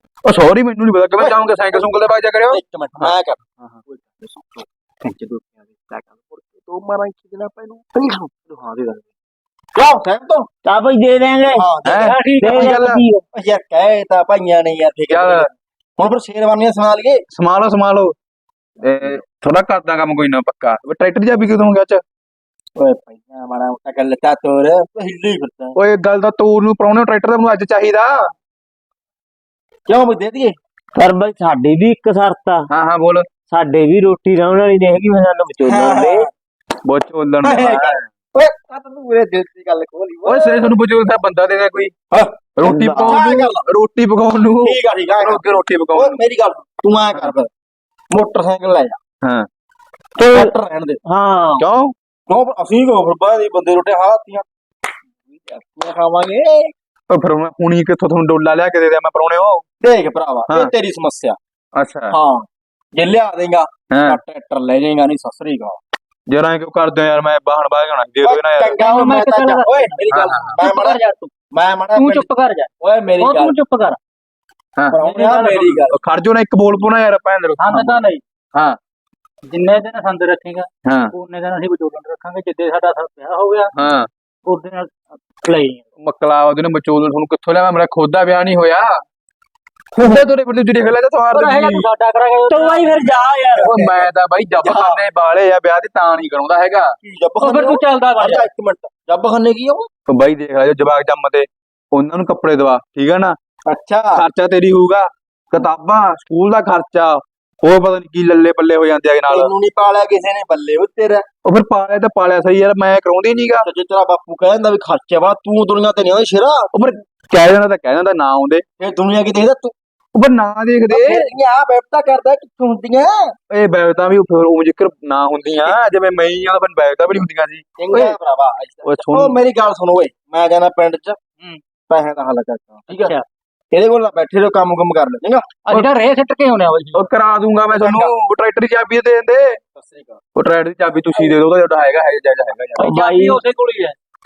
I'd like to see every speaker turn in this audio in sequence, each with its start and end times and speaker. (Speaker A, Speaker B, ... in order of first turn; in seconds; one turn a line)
Speaker A: 0.2-3.1
Speaker B: 1.2-9.1
Speaker B: 9.8-10.5
Speaker C: 10.7-11.7
Speaker B: 11.6-12.2
Speaker D: 11.9-12.7
Speaker A: 11.9-13.0
Speaker C: 12.4-13.2
Speaker B: 13.3-17.2
Speaker A: 15.1-15.5
Speaker A: 17.3-18.1
Speaker A: 18.8-22.0
Speaker B: 22.8-25.8
Speaker A: 25.8-28.3
Speaker B: 29.9-30.6
Speaker C: 31.0-32.7
Speaker A: 32.7-33.3
Speaker C: 33.5-36.3
Speaker B: 35.6-36.3
Speaker A: 36.8-38.0
Speaker B: 37.4-40.8
Speaker A: 40.2-41.9
Speaker B: 42.1-43.6
Speaker A: 42.6-46.2
Speaker C: 43.0-43.2
Speaker B: 44.6-47.5
Speaker B: 48.1-49.0
Speaker A: 49.2-49.5
Speaker C: 50.2-50.5
Speaker B: 50.2-51.0
Speaker C: 51.1-51.6
Speaker A: 51.6-51.9
Speaker B: 52.3-54.5
Speaker B: 55.4-56.7
Speaker A: 57.1-59.6
Speaker B: 59.8-61.4
Speaker A: 60.5-60.7
Speaker A: 61.8-62.1
Speaker B: 62.1-65.8
Speaker A: 63.9-64.2
Speaker A: 66.3-68.8
Speaker B: 68.2-71.0
Speaker D: 68.8-70.0
Speaker A: 70.1-70.6
Speaker D: 70.6-71.3
Speaker B: 71.5-72.3
Speaker D: 72.0-74.0
Speaker B: 72.8-73.6
Speaker B: 74.9-76.0
Speaker D: 75.0-75.7
Speaker A: 75.6-78.0
Speaker D: 77.6-78.2
Speaker D: 79.5-83.7
Speaker A: 80.8-81.1
Speaker A: 83.8-84.1
Speaker D: 84.5-85.8
Speaker A: 86.0-89.0
Speaker A: 90.0-91.9
Speaker D: 91.3-93.2
Speaker C: 92.5-93.8
Speaker B: 93.7-94.0
Speaker A: 93.7-97.0
Speaker B: 94.6-95.0
Speaker B: 97.0-99.9
Speaker D: 97.4-98.5
Speaker A: 100.1-103.4
Speaker B: 103.7-104.3
Speaker A: 104.1-109.5
Speaker B: 109.3-111.2
Speaker A: 111.5-113.7
Speaker B: 113.6-116.7
Speaker A: 116.7-118.6
Speaker B: 118.8-119.7
Speaker A: 120.2-121.3
Speaker B: 120.9-123.3
Speaker A: 123.5-128.2
Speaker B: 125.5-125.8
Speaker B: 127.8-131.2
Speaker A: 128.8-129.4
Speaker B: 131.9-133.2
Speaker D: 132.9-133.2
Speaker B: 133.7-135.6
Speaker D: 135.7-137.1
Speaker A: 136.9-139.6
Speaker B: 137.7-138.1
Speaker B: 139.8-140.2
Speaker A: 140.4-142.9
Speaker C: 142.8-143.4
Speaker D: 142.8-143.9